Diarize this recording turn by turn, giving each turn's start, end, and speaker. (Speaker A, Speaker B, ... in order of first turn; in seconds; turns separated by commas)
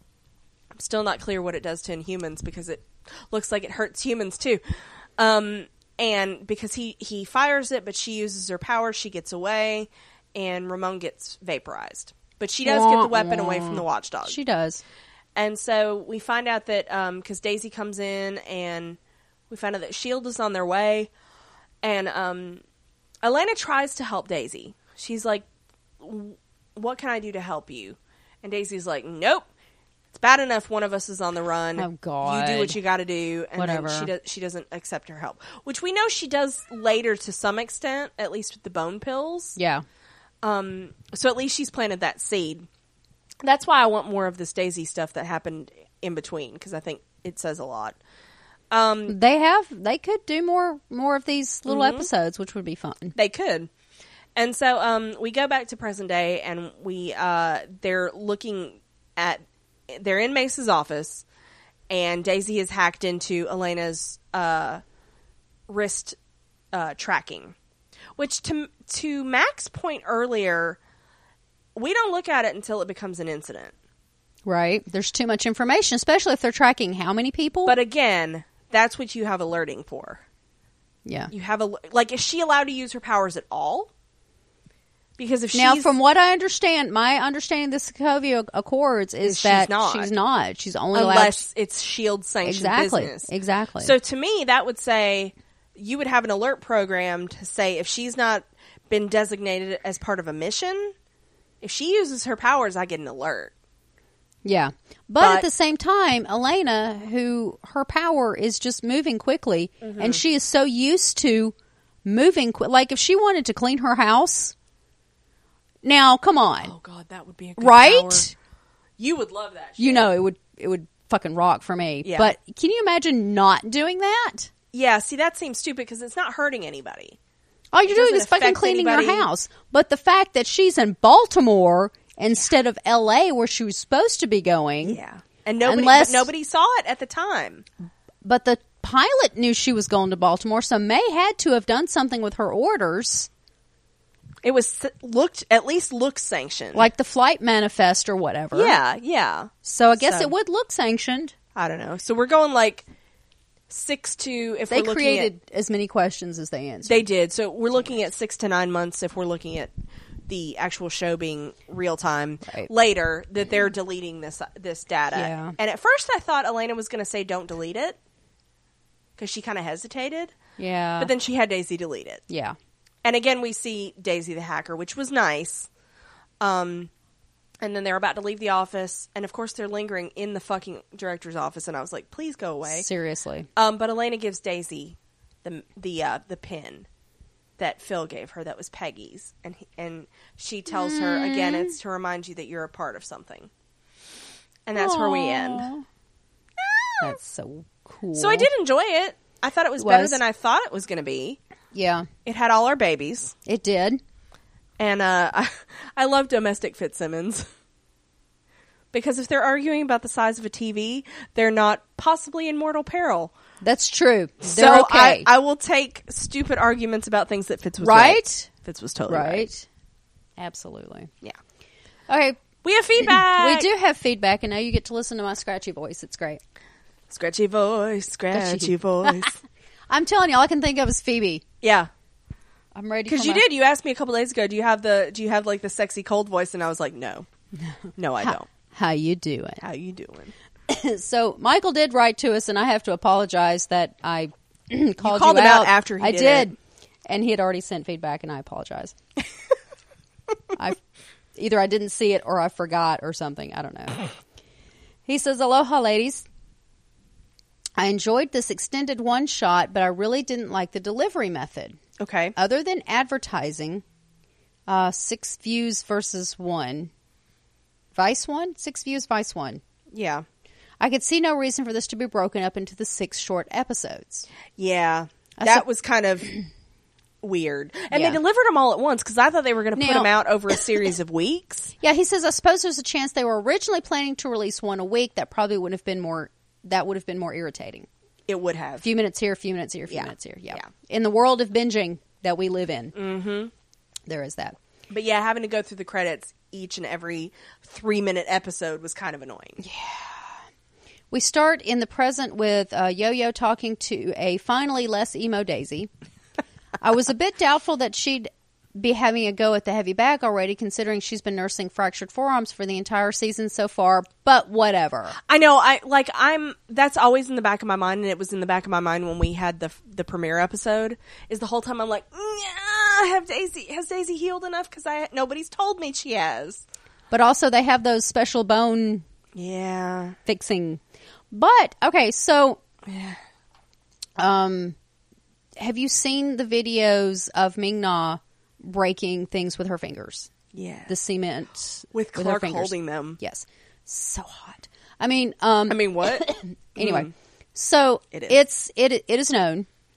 Speaker A: 0.8-4.6, Speaker A: 5.2-14.4, Speaker B: 12.6-14.8, Speaker A: 15.3-19.0, Speaker A: 19.5-21.1, Speaker A: 21.8-22.6, Speaker A: 23.2-25.4, Speaker A: 26.0-29.4, Speaker A: 30.1-39.6, Speaker B: 31.8-32.8, Speaker B: 33.6-34.1, Speaker B: 39.6-39.9, Speaker A: 40.4-42.7, Speaker A: 43.4-48.0, Speaker A: 48.7-49.1, Speaker B: 49.1-53.1, Speaker A: 51.6-52.1, Speaker A: 53.1-53.7, Speaker A: 54.4-61.2, Speaker A: 61.9-64.8, Speaker A: 65.7-66.2, Speaker A: 66.7-67.5, Speaker A: 68.2-70.8, Speaker A: 71.8-73.7, Speaker B: 74.5-77.8, Speaker A: 77.6-80.2, Speaker B: 81.0-81.3, Speaker A: 81.3-83.9, Speaker A: 85.2-85.9, Speaker B: 85.5-91.4, Speaker A: 89.2-90.1, Speaker A: 90.9-100.9, Speaker B: 92.4-94.0, Speaker A: 101.6-103.5, Speaker B: 104.4-111.5, Speaker A: 105.2-105.5, Speaker A: 109.8-110.2, Speaker B: 112.0-114.5, Speaker B: 115.8-116.7, Speaker A: 116.6-118.3, Speaker B: 117.6-118.3, Speaker A: 119.0-120.1, Speaker B: 119.8-124.5, Speaker A: 122.0-122.3, Speaker A: 124.7-127.2, Speaker B: 127.7-135.0, Speaker A: 127.9-129.3, Speaker A: 134.8-137.6, Speaker B: 135.6-136.3, Speaker B: 138.2-143.3, Speaker A: 144.4-146.9, Speaker B: 146.7-148.8, Speaker A: 148.5-150.3, Speaker B: 149.6-151.3, Speaker A: 151.6-152.8, Speaker A: 153.7-155.3, Speaker B: 154.7-157.1, Speaker A: 156.8-159.7, Speaker A: 160.3-168.0, Speaker B: 165.1-165.6, Speaker A: 169.2-170.3, Speaker B: 170.6-171.1, Speaker A: 171.0-172.2, Speaker B: 172.3-172.6, Speaker A: 173.0-175.7, Speaker A: 176.4-176.9, Speaker A: 177.6-182.9, Speaker B: 182.7-183.5, Speaker A: 183.6-186.9, Speaker A: 187.6-193.5, Speaker B: 190.7-191.8, Speaker A: 194.7-195.7, Speaker B: 194.8-195.8, Speaker A: 196.6-197.2, Speaker B: 197.0-198.5, Speaker A: 198.1-201.4, Speaker B: 199.8-200.2, Speaker B: 201.7-202.1, Speaker A: 202.2-203.3, Speaker B: 203.5-204.0, Speaker A: 204.8-207.5, Speaker A: 208.9-213.3, Speaker B: 213.6-215.3, Speaker A: 214.4-219.5, Speaker B: 217.8-218.5, Speaker B: 219.1-219.7, Speaker B: 220.4-221.1, Speaker B: 222.1-222.4, Speaker A: 222.6-223.7, Speaker B: 223.0-226.4, Speaker A: 227.1-229.4, Speaker B: 228.3-229.3, Speaker B: 229.9-231.4, Speaker A: 231.6-231.9, Speaker B: 232.7-233.4, Speaker A: 233.1-237.3, Speaker B: 237.6-239.6, Speaker A: 238.0-238.5, Speaker A: 239.6-240.3, Speaker B: 240.7-246.5, Speaker A: 245.0-246.5, Speaker B: 247.1-248.9, Speaker B: 251.3-254.1, Speaker B: 255.1-256.2, Speaker B: 257.8-261.8, Speaker A: 262.0-262.4, Speaker B: 262.4-263.8, Speaker B: 264.7-266.9, Speaker B: 267.9-269.6, Speaker A: 269.9-270.2, Speaker B: 270.8-274.3, Speaker A: 274.6-276.3, Speaker B: 275.4-275.6, Speaker A: 277.2-281.7, Speaker B: 277.9-278.2, Speaker B: 279.8-280.1, Speaker B: 281.8-287.9, Speaker A: 288.3-288.9, Speaker B: 288.8-292.9, Speaker A: 289.9-290.7, Speaker A: 292.9-293.5, Speaker B: 294.1-294.6, Speaker A: 294.9-299.6, Speaker B: 299.6-300.4, Speaker B: 301.1-305.9, Speaker B: 306.8-315.1, Speaker A: 315.3-326.6, Speaker B: 327.1-329.0, Speaker A: 329.4-330.2, Speaker B: 330.2-332.6, Speaker A: 332.9-333.2, Speaker B: 334.2-334.8, Speaker B: 335.6-340.3, Speaker A: 340.5-340.9, Speaker B: 340.9-349.7, Speaker A: 341.9-343.2, Speaker A: 345.7-347.1, Speaker A: 348.1-348.4